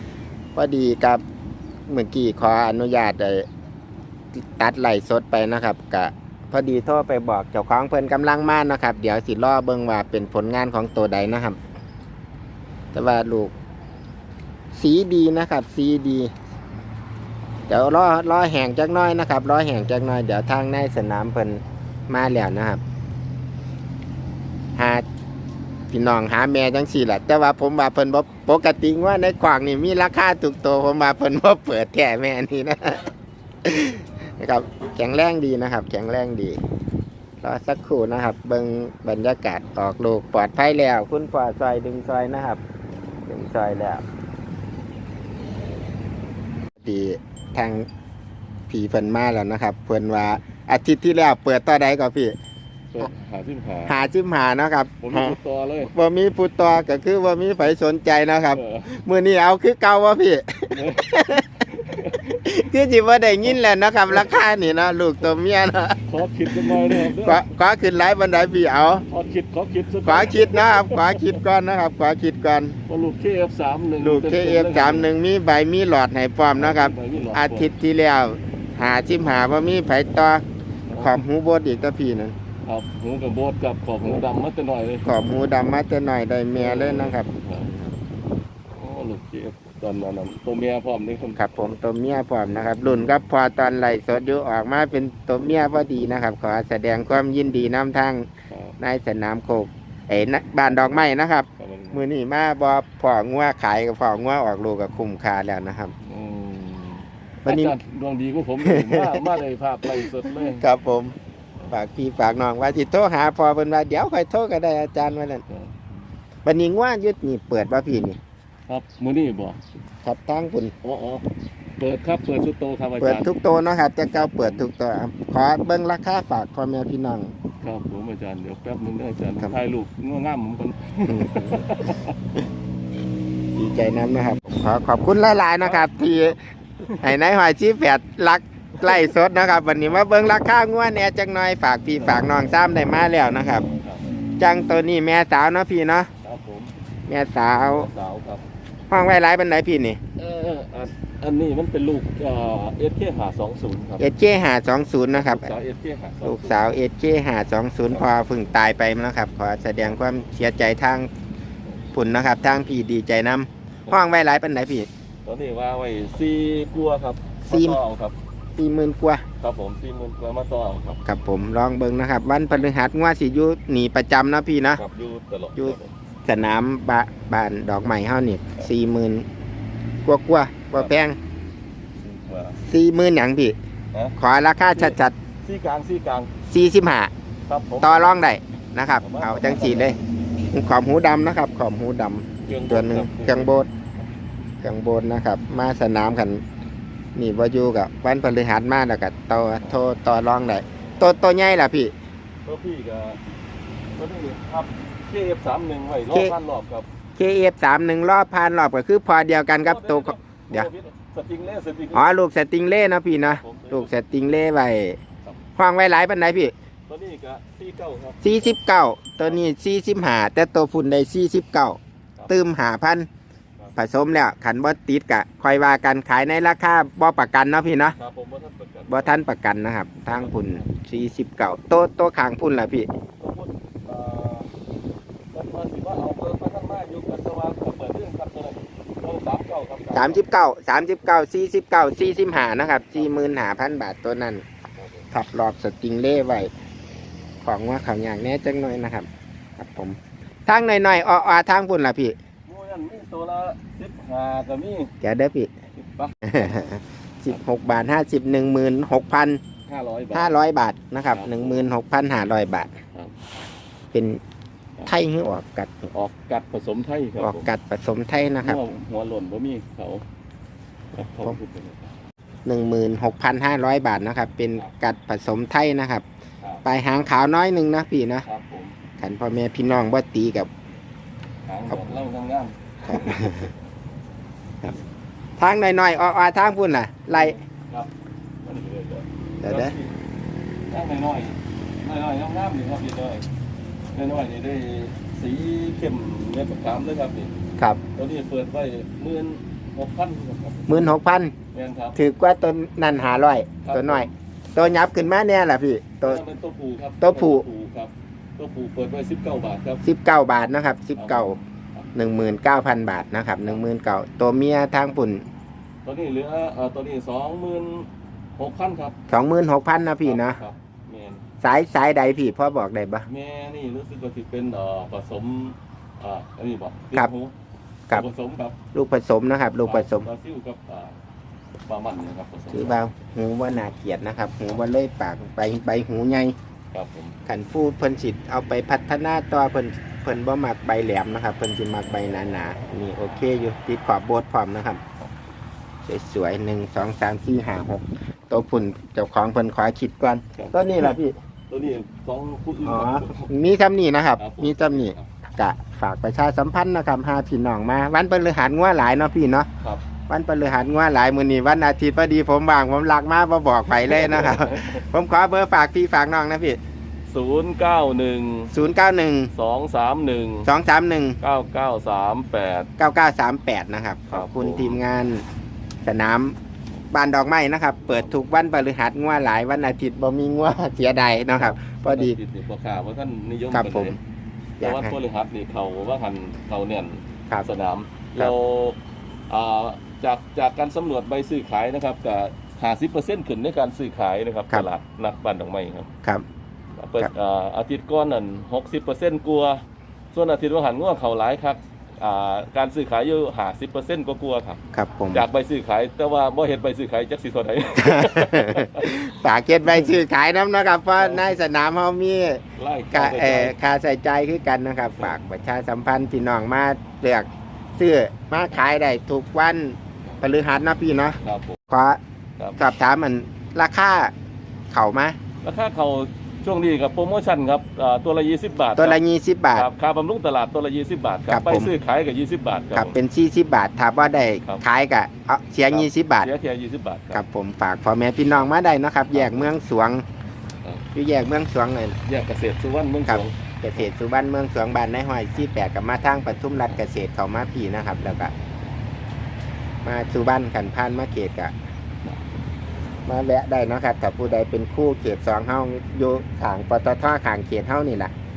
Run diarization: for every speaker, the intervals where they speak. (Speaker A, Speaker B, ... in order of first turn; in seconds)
Speaker A: 0.6-1.2, 1.9-3.5, 4.3-11.6, 12.9-13.5, 14.7-16.3, 17.7-22.8, 24.8-25.1, 25.9-33.1, 33.6-36.6, 37.4-42.6, 43.3-44.0, 46.8-47.9, 48.7-52.3, 53.9-61.6, 62.3-69.0, 70.0-72.8, 74.0-80.4, 81.0-82.4, 85.0-87.3, 91.3-98.3, 98.8-105.9, 107.5-107.8, 108.6-109.2, 109.8-111.2, 111.7-115.5, 116.5-118.2, 120.0-120.7, 123.0-127.3, 131.1-131.7, 133.6-136.4, 137.0-143.7, 144.4-146.1, 147.1-147.9, 148.9-150.0, 154.0-155.5, 156.2-161.1, 161.9-164.9, 167.5-167.8, 168.6-169.2, 171.1-174.8, 175.6-179.3, 180.1-181.2, 182.7-183.6, 184.2-185.1, 186.5-187.1, 187.8-193.7, 194.6-196.4, 197.2-201.9, 206.1-206.3, 207.2-210.7, 211.9-215.0, 215.6-216.5, 218.2-223.1, 223.8-228.0, 228.9-232.9, 239.9-244.4, 245.1-246.5, 247.4-252.2, 255.0-255.5, 256.2-259.4, 260.1-262.8, 263.9-264.2, 264.9-265.9, 267.2-268.6, 272.5-276.1, 276.6-278.3, 279.0-280.5, 282.9-283.5, 285.4-287.4, 289.4-289.8, 300.7-301.3, 301.9-306.2, 307.0-307.5, 309.8-311.4, 311.9-315.2, 319.1-320.4, 321.4-323.1, 328.7-330.1, 332.5-336.4, 337.3-344.8, 345.9-351.1, 352.6-359.5, 360.0-366.6, 368.5-369.3, 370.4-371.2, 372.8-375.2, 375.9-376.4, 376.9-382.2, 383.5-384.0, 384.6-385.0, 404.7-405.3, 407.8-421.2, 421.7-422.0, 422.6-424.1, 424.7-425.2, 428.8-429.7, 431.3-431.7, 432.7-436.3, 437.1-440.0, 440.9-442.0, 443.1-448.3, 449.8-451.5, 453.1-458.1
Speaker B: 52.9-54.0, 55.0-55.9, 58.5-58.9, 60.7-62.4, 66.1-67.5, 69.1-71.4, 72.9-75.1, 76.5-77.7, 80.9-81.2, 82.7-85.1, 86.5-87.9, 88.7-91.8, 92.8-93.3, 98.5-98.8, 100.7-101.0, 101.6-102.0, 106.0-110.7, 118.7-119.6, 120.8-121.2, 121.8-123.3, 124.2-124.7, 127.6-132.2, 135.6-137.2, 138.8-139.1, 141.9-142.3, 143.6-144.1, 146.2-146.7, 147.5-148.4, 150.2-154.1, 155.1-156.7, 165.2-168.2, 169.4-171.0, 174.8-175.9, 182.0-182.6, 183.9-186.3, 187.5-188.3, 189.0-190.1, 192.5-193.6, 202.4-203.2, 204.0-206.9, 209.6-212.1, 213.1-213.9, 216.9-218.6, 228.0-229.2, 230.1-230.7, 233.2-234.5, 235.3-240.2, 242.9-243.4, 252.5-254.9, 255.8-256.3, 259.7-260.4, 261.1-261.7, 265.9-267.5, 268.4-270.0, 270.9-271.9, 278.2-278.8, 281.5-283.3, 287.1-287.9, 288.4-289.9, 290.7-293.2, 293.9-297.3, 298.0-300.9, 301.5-302.0, 303.6-304.1, 306.0-309.8, 311.0-312.2, 315.9-319.1, 320.0-321.2, 323.1-327.3, 327.9-328.6, 329.6-331.0, 331.7-332.8, 336.7-337.2, 350.4-350.9, 351.5-353.4, 354.2-355.1, 363.7-364.8, 367.1-368.6, 369.3-370.5, 371.2-372.7, 374.1-374.8, 381.4-384.0, 384.6-388.8, 389.3-395.9, 396.8-399.6, 400.1-404.6, 405.1-409.9, 411.0-411.4, 412.6-413.6, 421.2-421.6, 425.4-429.0, 429.6-433.0, 435.7-437.2, 439.1-439.5, 442.1-443.9